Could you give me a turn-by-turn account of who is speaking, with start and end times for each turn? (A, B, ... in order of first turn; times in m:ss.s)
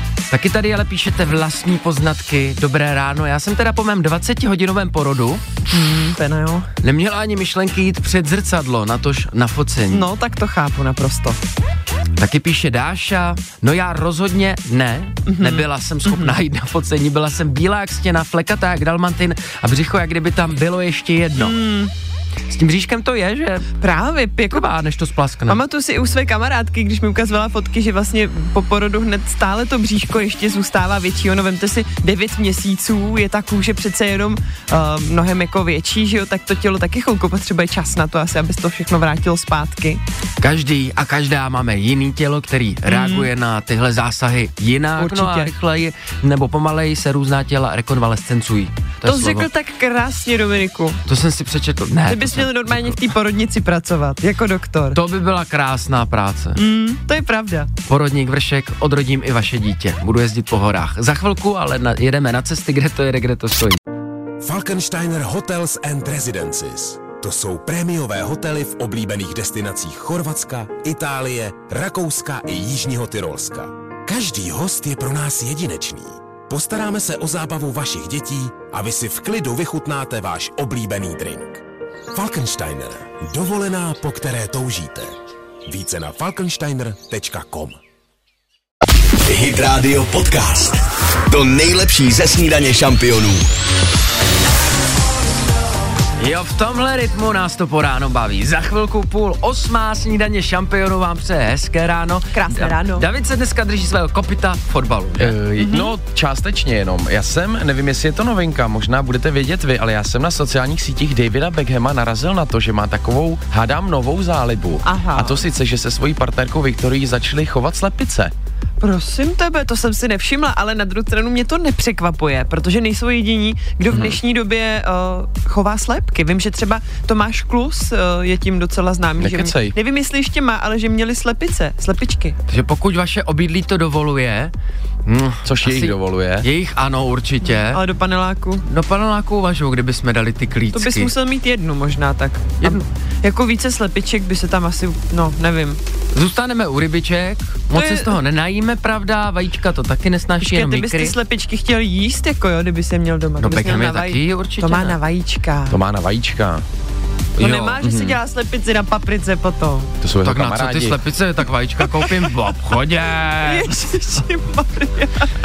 0:00.3-0:05.4 A
0:05.7-0:06.7 B
0:06.8-0:10.1 A
0:09.9-0:11.4 B
0:12.2-0:21.6 A
0:15.3-0:16.4 B
0:21.4-0:21.9 B
0:22.5-0:23.7 A
0:23.8-0:24.6 B
0:24.5-0:25.6 A
0:25.5-0:40.0 B
0:40.4-0:49.5 A
0:42.9-0:43.3 B
0:45.0-0:45.5 B
0:49.0-0:51.0 B
0:51.1-0:53.0 A
0:52.1-0:55.0 B
0:54.9-0:56.6 A
0:56.6-0:57.7 B
0:57.9-1:03.8 A
1:04.4-1:27.8 C
1:29.2-1:33.5 D
1:36.2-1:45.4 A
1:42.3-1:43.1 B
1:45.2-1:58.3 E
1:45.6-1:45.9 B
1:54.8-1:55.4 B
1:58.8-2:12.4 B
2:03.9-2:04.2 E
2:09.2-2:09.8 E
2:12.5-2:14.5 A
2:15.1-2:17.8 A
2:15.4-2:16.5 E
2:17.7-2:18.6 B
2:18.7-2:21.1 A
2:20.7-2:25.8 B
2:26.1-2:31.2 A
2:27.7-2:28.2 B
2:30.4-2:35.8 B
2:33.4-2:35.0 A
2:35.7-2:36.6 E
2:37.4-2:38.2 E
2:37.4-2:40.0 B
2:40.0-2:41.0 E
2:40.2-2:43.8 A
2:43.4-2:45.3 B